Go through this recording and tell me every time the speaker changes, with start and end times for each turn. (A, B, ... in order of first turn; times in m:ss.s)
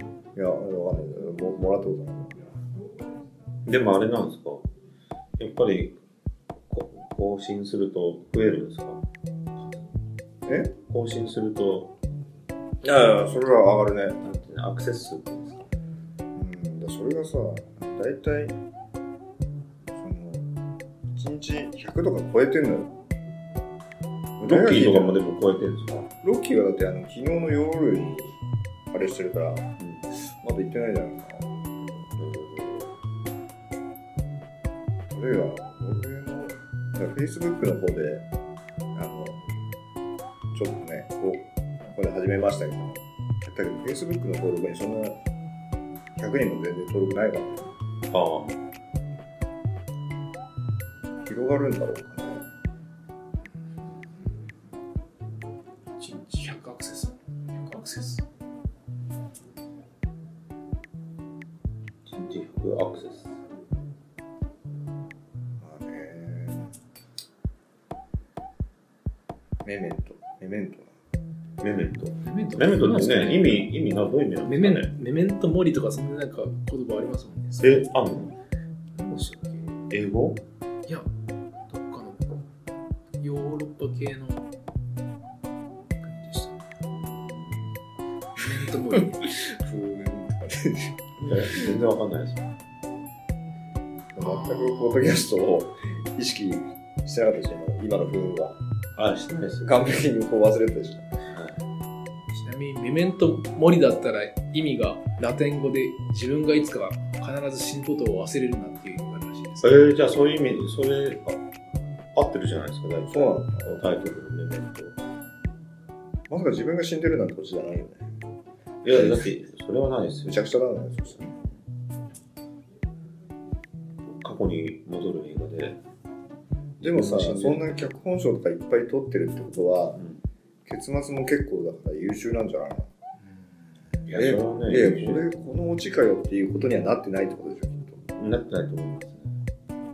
0:00.4-0:02.3 A
0:03.6-0:04.6 B
0:05.4-0:06.0 B
0:06.7-0:09.0 B
0:09.6-0:09.8 B
0:10.5-0:10.7 A
0:10.9-0:11.9 B
0:12.8-0:14.2 A
0:14.2-0:15.7 B
0:16.4-0:18.6 A
0:20.0-0:20.5 A
0:21.1-0:22.9 A
0:24.4-0:25.2 A
0:24.4-0:26.1 B
0:26.2-0:28.4 A
0:28.9-0:31.6 A
0:32.2-0:33.0 B
0:35.1-0:38.2 A
0:39.0-0:39.4 A
0:40.5-0:45.2 A
0:46.2-0:47.7 A
0:48.1-0:48.6 B
0:51.2-0:52.4 A
0:56.0-0:58.2 C
1:02.1-1:03.4 B
1:05.6-1:06.7 A
1:09.6-1:10.9 A
1:11.6-1:14.9 B
1:12.2-1:13.7 C
1:14.5-1:17.9 C
1:17.6-1:18.4 B
1:19.0-1:19.8 C
1:19.9-1:20.4 B
1:21.7-1:22.4 C
1:23.2-1:24.4 C
1:26.0-1:26.6 C
1:26.9-1:27.7 B
1:28.4-1:29.2 C
1:29.5-1:31.0 A
1:31.2-1:32.5 B
1:34.2-1:38.6 A
1:34.2-1:35.0 C
1:39.0-1:39.9 B
1:39.6-1:41.1 A
1:41.3-1:41.6 B
1:42.3-1:49.8 C
1:49.6-1:51.4 B
1:52.1-1:55.0 B
1:53.1-1:53.8 A
1:56.3-1:58.0 A
1:58.8-2:00.4 B
1:58.9-1:59.2 A
2:00.3-2:01.3 A
2:04.0-2:05.8 B
2:06.8-2:10.0 A
2:06.8-2:07.8 B
2:10.7-2:12.9 A
2:14.1-2:15.3 B
2:14.1-2:18.0 A
2:18.2-2:19.4 B